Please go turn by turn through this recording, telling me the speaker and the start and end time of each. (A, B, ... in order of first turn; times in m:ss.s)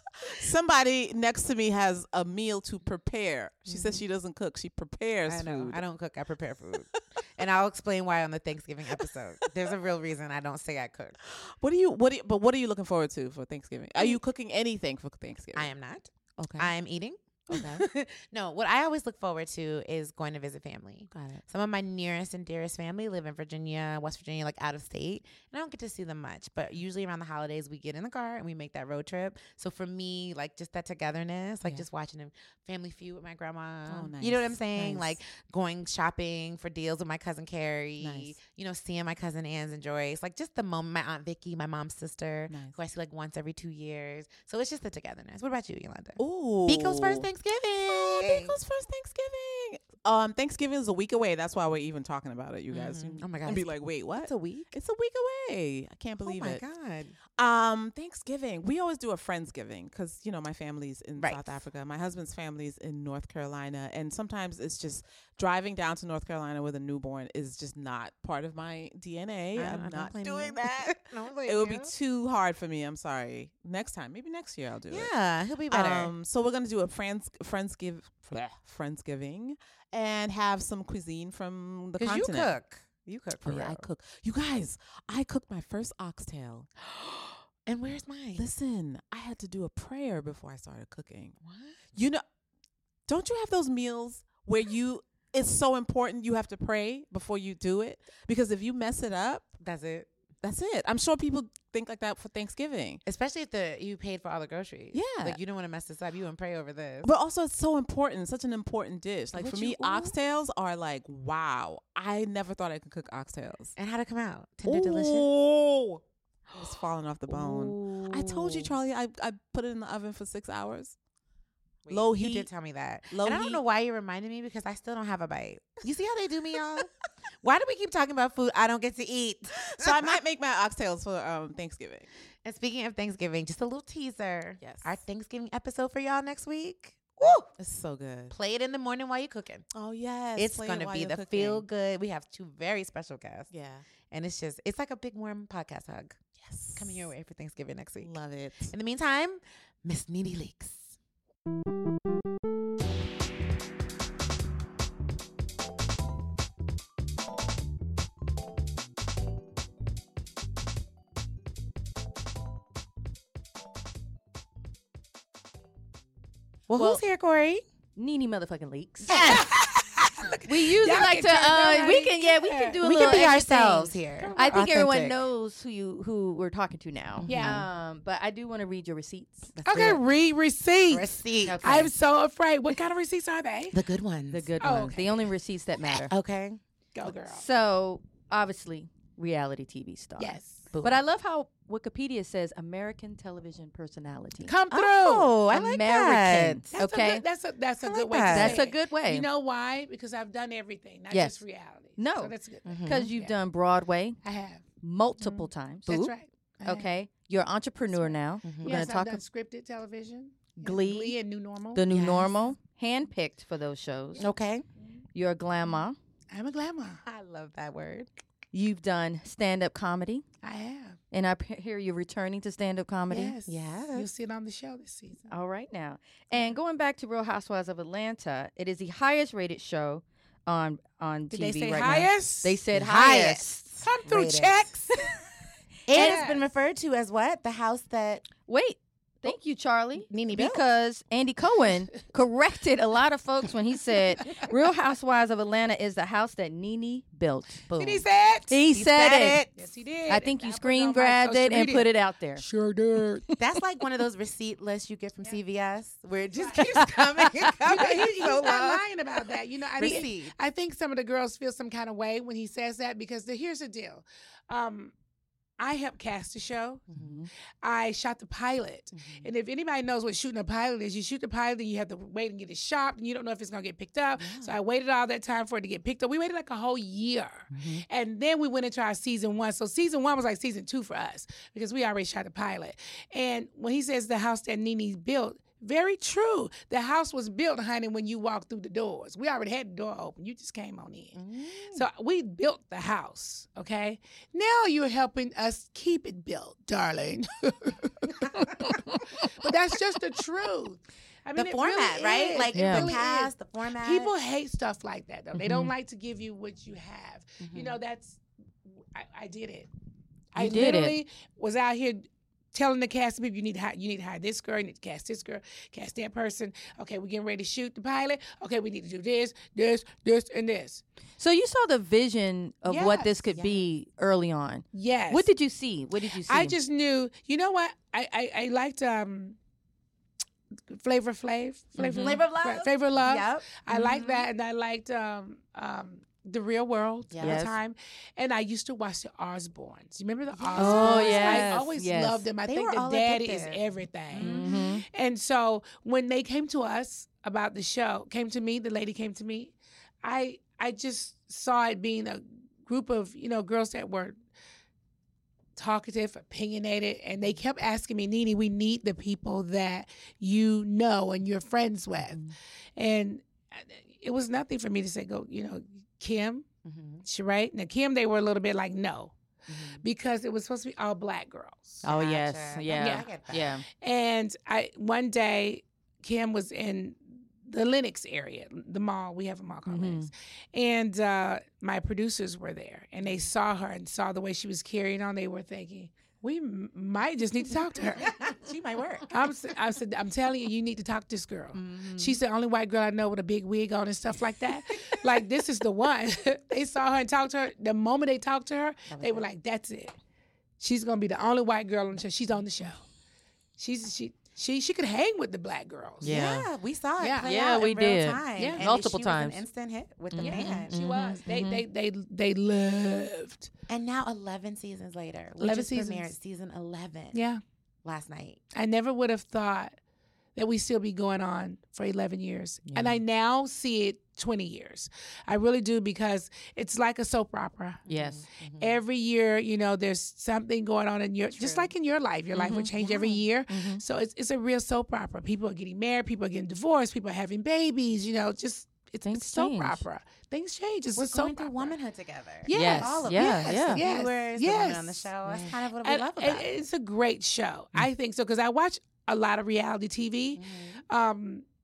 0:00.2-0:05.8 A
0:03.6-0:04.0 B
0:05.3-0:11.2 B
0:11.2-0:15.7 A
0:15.5-0:48.6 B
0:16.4-0:16.7 A
0:17.5-0:17.8 A
0:21.1-0:21.4 A
0:33.9-0:35.2 A
0:38.0-0:38.4 A
0:42.5-0:42.8 A
0:46.2-0:47.3 A
0:47.9-0:56.6 A
0:52.7-0:54.7 B
0:56.2-0:57.2 B
0:57.4-1:15.1 A
1:01.2-1:01.6 B
1:09.5-1:11.9 B
1:14.9-1:16.1 B
1:15.7-1:22.5 A
1:22.0-1:23.9 B
1:23.4-1:26.7 A
1:27.0-1:28.4 B
1:28.4-1:31.4 A
1:31.4-1:31.8 B
1:31.9-1:32.2 A
1:33.1-1:39.5 A
1:39.6-1:40.1 B
1:40.4-1:43.0 A
1:43.0-1:47.1 B
1:44.9-1:45.4 A
1:47.0-1:53.8 A
1:49.3-1:50.2 B
1:53.8-1:55.3 B
1:54.6-1:56.0 A
1:56.6-2:01.0 A
1:57.3-1:58.7 B
2:01.8-2:06.9 B
2:01.9-2:02.5 A
2:03.1-2:03.6 A
2:07.4-2:10.1 B
2:09.7-2:12.1 A
2:12.4-2:17.5 B
2:14.6-2:15.0 A
2:17.6-2:18.4 A
2:18.3-2:19.7 B
2:19.7-2:21.6 A
2:20.4-2:23.5 B
2:23.5-2:23.8 A
2:24.1-2:26.2 B
2:26.4-2:27.1 A
2:26.8-2:28.1 B
2:28.0-2:28.7 A
2:28.7-2:31.0 B
2:46.7-2:47.6 B
2:46.8-2:47.0 C
2:48.0-2:49.5 C
2:49.1-2:52.8 D
2:49.1-2:49.5 B
2:50.5-2:59.5 C
2:52.8-2:55.2 B
2:54.2-2:54.6 D
2:57.2-2:57.6 B
2:57.3-2:57.7 D
2:59.5-3:00.0 B
2:59.6-3:03.8 D
3:00.9-3:01.9 B
3:01.5-3:01.9 C
3:03.7-3:04.6 B
3:04.3-3:06.1 C
3:04.6-3:05.3 D
3:05.9-3:06.6 B
3:07.0-3:07.4 D
3:07.2-3:14.5 C
3:10.2-3:10.7 D
3:10.7-3:11.0 B
3:14.4-3:15.4 D
3:14.7-3:16.9 B
3:15.5-3:17.2 C
3:16.8-3:23.4 D
3:17.8-3:18.7 B
3:18.2-3:19.3 C
3:21.1-3:21.4 C
3:22.0-3:24.2 C
3:22.6-3:23.1 B
3:24.2-3:26.9 D
3:24.8-3:29.2 C
3:27.9-3:31.9 D
3:28.4-3:28.8 B
3:30.6-3:31.2 C
3:31.8-3:34.2 C
3:31.9-3:32.4 B
3:34.2-3:34.6 B
3:35.1-3:36.0 C
3:36.3-3:37.0 D
3:37.0-3:38.1 B
3:38.5-3:40.2 C
3:40.4-3:41.0 D
3:41.1-3:43.4 C
3:43.1-3:44.1 B
3:43.1-3:45.2 D
3:45.3-3:53.6 C
3:51.3-3:52.6 D
3:51.8-3:52.0 B
3:52.7-3:54.6 B
3:53.8-3:55.2 D
3:55.9-3:58.2 B
3:55.9-3:56.5 D
3:56.0-3:56.2 C
3:58.4-4:07.6 C
4:00.0-4:00.6 B
4:07.7-4:08.0 B
4:07.8-4:08.6 D
4:08.5-4:09.4 C
4:08.7-4:09.5 B
4:09.6-4:13.2 D
4:10.1-4:12.4 C
4:13.4-4:18.8 B
4:16.3-4:24.9 D
4:16.6-4:17.6 C
4:19.8-4:20.3 B
4:25.6-4:26.9 D
4:26.9-4:27.2 B
4:27.0-4:27.3 C
4:27.6-4:51.2 D
4:28.9-4:29.3 B
4:34.2-4:34.6 B
4:37.5-4:37.8 C
4:51.1-4:51.8 B
4:51.7-5:09.7 D
5:01.4-5:04.1 B
5:02.5-5:02.9 C
5:05.4-5:05.7 C
5:07.4-5:07.8 B
5:10.3-5:20.8 D
5:10.4-5:11.0 C
5:21.2-5:26.6 C
5:22.7-5:23.2 D
5:23.3-5:23.7 B
5:24.7-5:25.3 D
5:26.1-5:29.4 D
5:30.7-5:54.2 D
5:31.8-5:32.2 C
5:31.9-5:34.1 B
5:33.8-5:34.1 C
5:37.1-5:37.4 B
5:37.2-5:37.6 C
5:40.4-5:41.7 B
5:40.5-5:42.3 C
5:42.4-5:44.7 B
5:44.2-5:44.9 C
5:55.6-6:02.2 D
6:02.8-6:06.5 D
6:06.6-6:07.0 B
6:07.0-6:09.1 D
6:09.5-6:09.8 B
6:09.8-6:11.8 D
6:11.8-6:13.6 B
6:11.8-6:13.7 C
6:12.7-6:13.1 D
6:13.7-6:28.2 D
6:19.7-6:20.1 C
6:23.0-6:23.3 B
6:27.9-6:29.1 B
6:29.1-6:40.0 D
6:31.5-6:32.2 B
6:38.9-6:39.3 B
6:40.6-6:42.8 D
6:43.6-6:46.3 D
6:46.0-6:46.5 C
6:46.0-6:50.8 B
6:47.0-6:47.3 D
6:47.2-6:49.4 C
6:48.4-6:48.6 D
6:50.1-6:51.6 C
6:50.2-6:53.5 D
6:53.7-6:57.2 B
6:55.4-6:56.1 D
6:57.1-6:57.4 D
6:57.8-6:58.4 B
6:58.5-6:59.8 D
7:00.4-7:07.8 D
7:02.7-7:03.0 C
7:07.8-7:08.8 B
7:07.9-7:08.2 C
7:08.6-7:21.8 D
7:11.3-7:11.7 B
7:12.4-7:12.7 C
7:12.8-7:13.2 B
7:13.5-7:13.8 C
7:19.0-7:19.8 C
7:21.0-7:26.6 B
7:22.5-7:31.4 D
7:22.5-7:23.8 C
7:30.3-7:30.8 B